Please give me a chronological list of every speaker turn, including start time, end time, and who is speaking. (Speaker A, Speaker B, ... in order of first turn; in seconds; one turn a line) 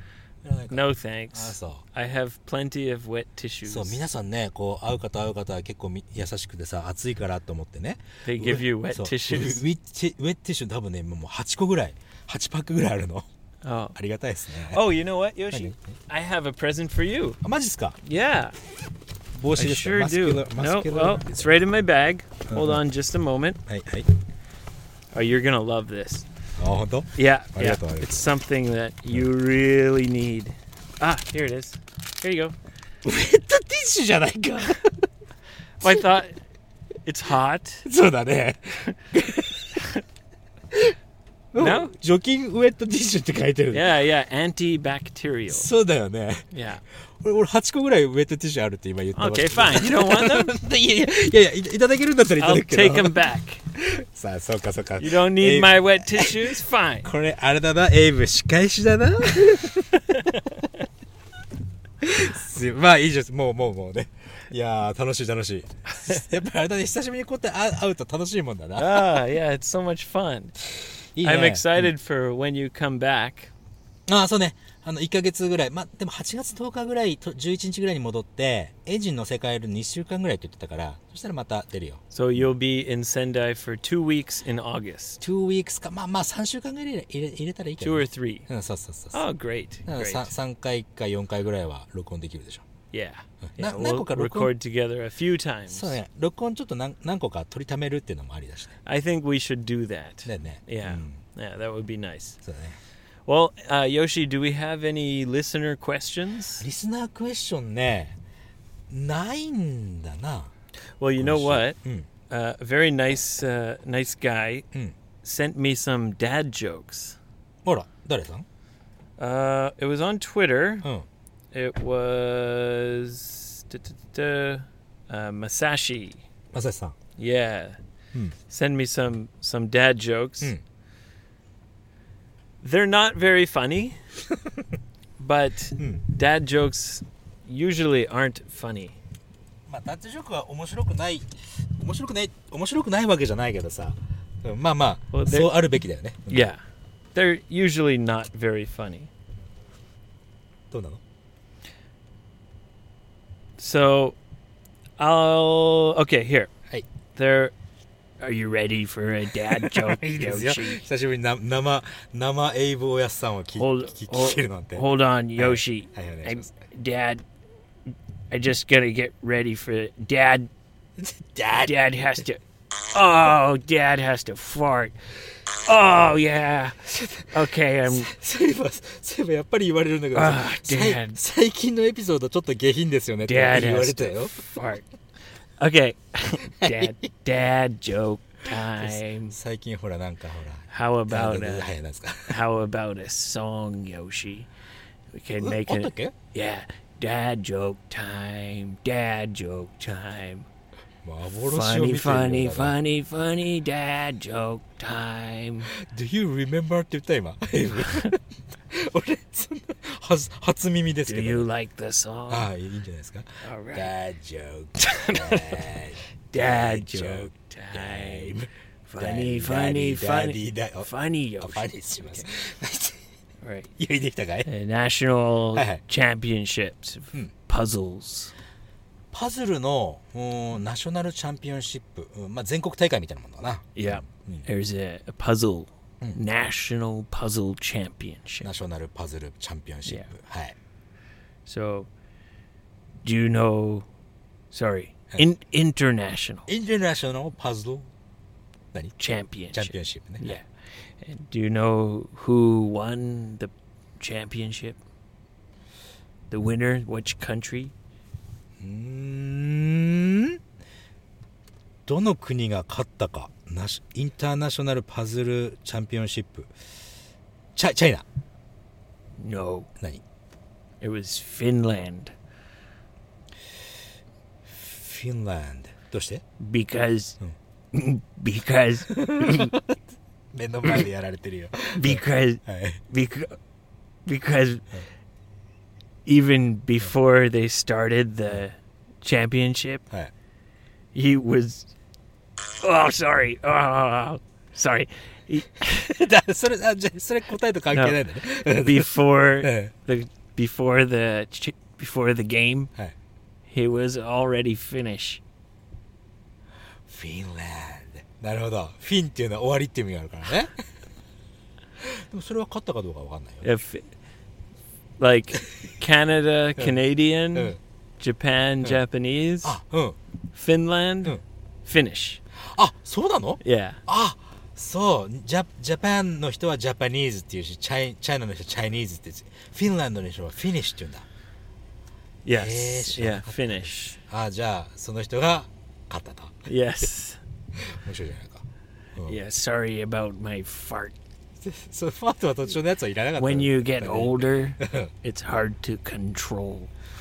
Speaker A: 0.4-1.8
Speaker B: 0.7-4.0
Speaker A: 3.6-13.3
Speaker B: 8.2-9.6
Speaker B: 13.6-13.9
Speaker A: 13.9-14.8
Speaker B: 14.7-17.4
Speaker A: 15.5-15.9
Speaker A: 17.4-18.0
Speaker B: 18.0-18.5
Speaker A: 19.4-21.5
Speaker B: 19.5-23.6
Speaker A: 22.5-22.8
Speaker A: 23.6-24.1
Speaker B: 25.1-26.2
Speaker A: 26.6-28.3
Speaker B: 27.1-32.5
Speaker A: 33.0-35.0
Speaker B: 35.8-36.4
Speaker B: 37.0-37.9
Speaker A: 37.9-39.8
Speaker A: 41.5-43.9
Speaker B: 41.6-41.9
Speaker B: 43.7-45.7
Speaker A: 45.5-46.5
Speaker B: 46.5-46.8
Speaker A: 47.2-53.2
Speaker B: 49.1-50.6
Speaker B: 52.4-53.6
Speaker A: 53.7-59.9
Speaker B: 55.0-57.1
Speaker B: 59.4-60.6
Speaker A: 62.0-69.2
Speaker B: 68.8-70.5
Speaker A: 71.1-71.9
Speaker B: 71.2-73.5
Speaker A: 74.1-82.0
Speaker B: 82.1-85.2
Speaker A: 85.2-89.2
Speaker B: 87.8-88.5
Speaker B: 89.1-90.3
Speaker A: 89.8-92.6
Speaker B: 92.9-96.0
Speaker A: 93.5-94.5
Speaker A: 95.7-98.8
Speaker B: 98.8-102.4
Speaker A: 100.2-101.2
Speaker A: 102.4-102.8
Speaker B: 103.2-106.6
Speaker A: 106.6-108.2
Speaker A: 108.9-110.5
Speaker B: 111.0-111.8
Speaker A: 111.2-112.1
Speaker B: 112.3-114.7
Speaker B: 115.2-117.2
Speaker A: 117.6-118.5
Speaker B: 119.2-120.9
Speaker B: 121.5-126.2
Speaker A: 126.5-127.0
Speaker B: 127.2-127.8
Speaker B: 128.5-130.5
Speaker B: 132.6-134.0
Speaker B: 135.2-139.0
Speaker A: 139.7-146.5
Speaker B: 145.1-145.5
Speaker B: 146.3-146.6
Speaker B: 147.1-149.1
Speaker A: 150.7-151.0
Speaker B: 153.6-154.2
Speaker B: 155.0-156.5
Speaker B: 157.1-157.5
Speaker B: 158.2-160.8
Speaker A: 159.5-166.5
Speaker B: 163.5-167.2
Speaker B: 168.3-170.5
Speaker A: 171.0-171.7
Speaker B: 171.5-175.0
Speaker B: 175.5-178.1
Speaker A: 176.8-184.4
Speaker B: 180.1-181.2
Speaker B: 183.2-184.8
Speaker B: 185.6-189.3
Speaker A: 186.6-186.9
Speaker A: 188.6-192.4
Speaker B: 190.7-191.7
Speaker B: 192.3-194.5
Speaker B: 195.1-200.5
Speaker A: 195.4-196.1
Speaker A: 201.0-202.8
Speaker B: 201.4-205.7
Speaker A: 205.7-208.2
Speaker A: 208.7-211.5
Speaker B: 211.1-212.5
Speaker A: 212.3-223.0
Speaker B: 213.4-213.9
Speaker B: 214.8-215.8
Speaker B: 216.3-218.3
Speaker B: 218.9-222.3
Speaker B: 223.4-223.7
Speaker A: 223.8-224.5
Speaker B: 224.4-228.3
Speaker A: 225.5-225.8
Speaker A: 229.1-234.5
Speaker B: 233.8-238.5
Speaker A: 238.4-240.6
Speaker B: 239.8-240.1
Speaker B: 241.4-241.9
Speaker B: 243.0-243.9
Speaker B: 244.5-246.5
Speaker A: 246.5-247.9
Speaker B: 249.0-250.4
Speaker A: 249.5-250.4
Speaker B: 251.0-254.8
Speaker B: 256.3-257.7
Speaker A: 258.6-260.4
Speaker A: 261.9-266.5
Speaker A: 267.5-268.0
Speaker B: 269.2-269.7
Speaker B: 270.8-272.1
Speaker A: 274.5-276.2
Speaker B: 276.4-277.2
Speaker B: 277.7-279.5
Speaker A: 278.9-279.8
Speaker A: 280.3-282.8
Speaker B: 281.7-283.4
Speaker B: 284.1-284.6
Speaker B: 286.1-289.8
Speaker B: 290.9-291.7
Speaker B: 292.5-295.9
Speaker A: 295.7-299.7
Speaker B: 297.7-298.0
Speaker B: 298.5-302.7
Speaker B: 303.5-305.2
Speaker A: 306.9-310.6
Speaker A: 311.8-313.5
Speaker B: 313.4-313.9
Speaker B: 315.0-319.6
Speaker A: 317.3-317.6
Speaker A: 319.4-320.0
Speaker B: 320.3-322.2
Speaker A: 322.4-331.1
Speaker B: 323.4-323.8
Speaker B: 332.2-334.0
Speaker A: 332.3-336.5
Speaker B: 336.4-337.2
Speaker A: 337.5-339.2
Speaker B: 339.1-340.9
Speaker A: 341.4-344.9
Speaker B: 343.2-346.7